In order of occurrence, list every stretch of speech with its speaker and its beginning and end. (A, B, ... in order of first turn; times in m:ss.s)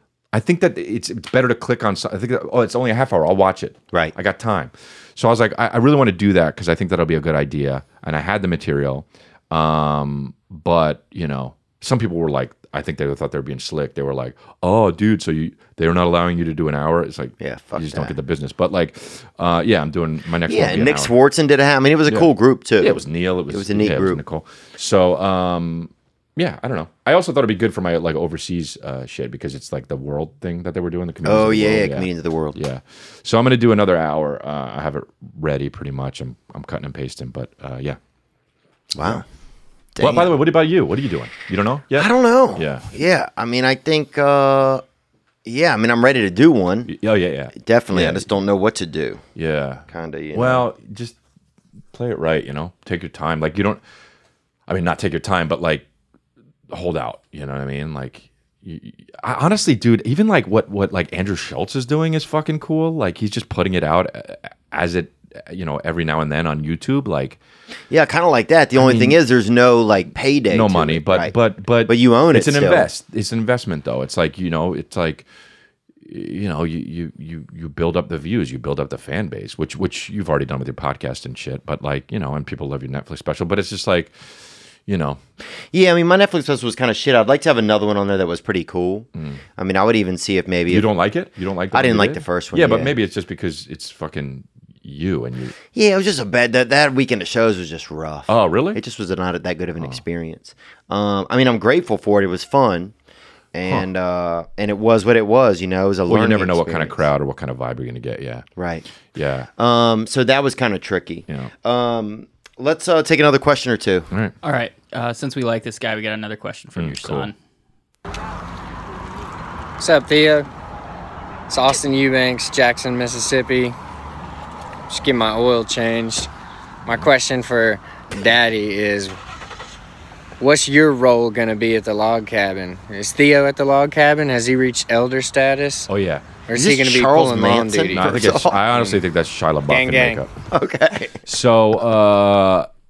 0:00.3-0:21.1 A
0:17.4-0:18.1 B
0:20.5-0:24.2 B
0:22.8-0:38.0 A
0:31.2-0:32.6 B
0:38.9-0:39.2 B
0:39.0-0:39.2 A
0:39.9-0:40.4 B
0:40.0-0:42.9 A
0:42.0-0:44.8 B
0:45.4-0:46.9 B
0:46.9-0:48.3 A
0:47.5-0:49.2 B
0:49.3-0:51.2 A
0:49.9-0:50.6 B
0:51.9-0:53.8 A
0:54.7-0:55.8 A
0:56.7-1:07.4 A
1:07.9-1:11.3 B
1:08.8-1:09.2 A
1:10.5-1:15.2 A
1:11.8-1:12.9 B
1:16.0-1:25.2 A
1:25.7-1:30.9 B
1:29.1-1:29.4 A
1:30.7-1:35.5 A
1:31.7-1:32.9 B
1:35.7-1:42.9 B
1:38.3-1:38.8 A
1:43.5-1:47.0 B
1:46.1-1:48.5 A
1:48.6-1:48.8 B
1:49.1-1:49.5 A
1:49.6-1:54.1 B
1:54.4-1:57.3 C
1:56.7-1:57.3 A
1:59.8-2:00.5 D
2:01.5-2:03.8 D
2:04.9-2:06.3 D
2:06.8-2:09.2 D
2:10.4-2:15.9 D
2:15.9-2:16.3 A
2:16.5-2:18.1 D
2:16.5-2:18.6 B
2:17.8-2:20.3 A
2:19.7-2:20.2 D
2:20.5-2:21.2 B
2:21.2-2:22.7 A